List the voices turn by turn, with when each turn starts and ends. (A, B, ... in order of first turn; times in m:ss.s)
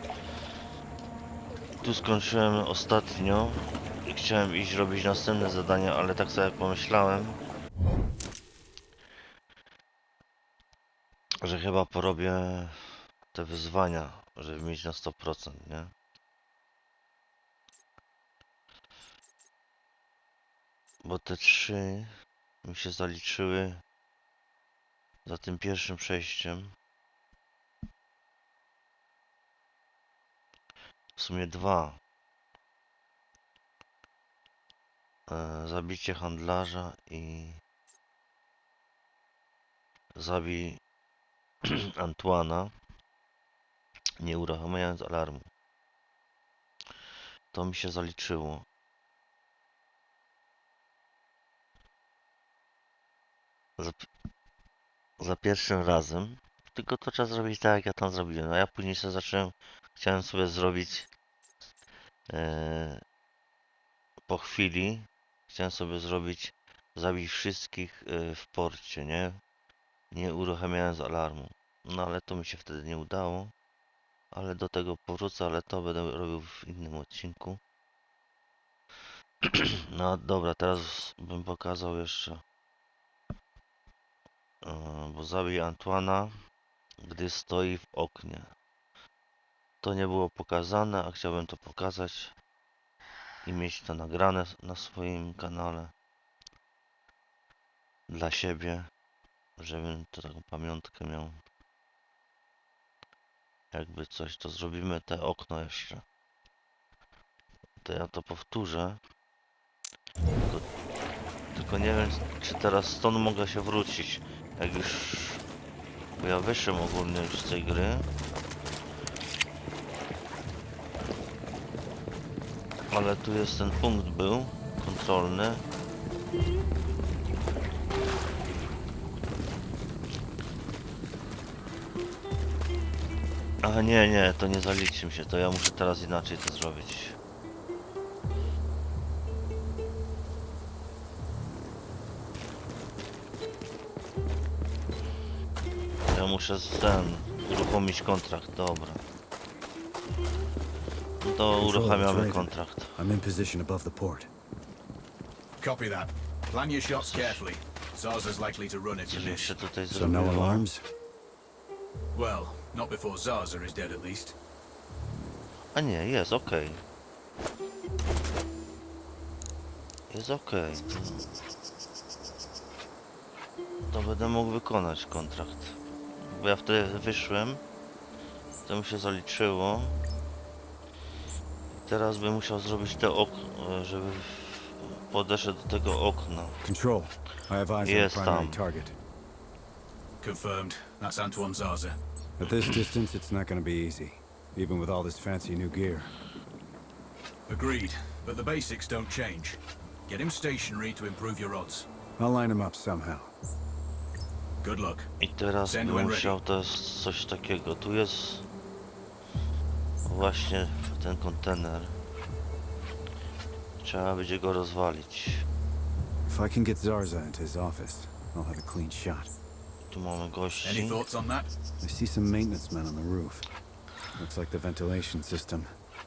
0:01.8-0:07.4 A
0:11.4-0:15.9 A
0:21.0-0:22.1 A
0:22.6-0:23.8 A
0:25.3-0:26.7 A
0:31.2-0:32.0 A
0:35.3-0:37.6 A
0:40.2-0:40.8 A
0:41.6-0:42.7 A
0:44.2-0:45.5 A
0:47.5-0:48.6 A
0:55.2-1:01.1 A
1:02.3-1:03.0 A
1:04.3-1:09.4 A
1:10.1-1:13.5 A
1:14.3-1:17.6 A
1:19.5-1:22.4 A
1:24.6-1:26.3 A
1:27.0-1:28.5 A
1:29.8-1:32.3 A
1:33.4-1:35.9 A
1:38.1-1:38.9 A
1:39.6-1:41.4 A
1:43.7-1:46.0 A
1:47.8-1:49.0 A
1:51.5-1:55.4 A
1:56.2-1:58.1 A
2:02.9-2:05.6 A
2:13.6-2:17.2 A
2:26.1-2:29.0 A
2:31.2-2:33.0 A
2:31.6-2:34.3 B
2:35.6-2:39.6 C
2:37.0-2:37.4 A
2:39.1-2:40.7 A
2:39.9-2:40.8 B
2:42.1-2:44.4 C
2:45.7-2:46.8 A
2:50.1-2:51.3 A
2:53.8-2:57.6 A
2:58.7-3:00.0 A
3:01.8-3:06.6 A
3:06.6-3:09.0 B
3:07.8-3:08.6 A
3:10.2-3:12.0 C
3:12.4-3:16.1 B
3:17.5-3:21.9 C
3:22.2-3:23.3 B
3:24.6-3:25.1 C
3:25.2-3:28.5 A
3:25.7-3:26.4 C
3:30.0-3:32.0 A
3:33.8-3:35.4 A
3:36.3-3:39.3 B
3:39.9-3:41.0 A
3:40.6-3:41.5 C
3:41.8-3:43.5 B
3:44.2-3:45.7 B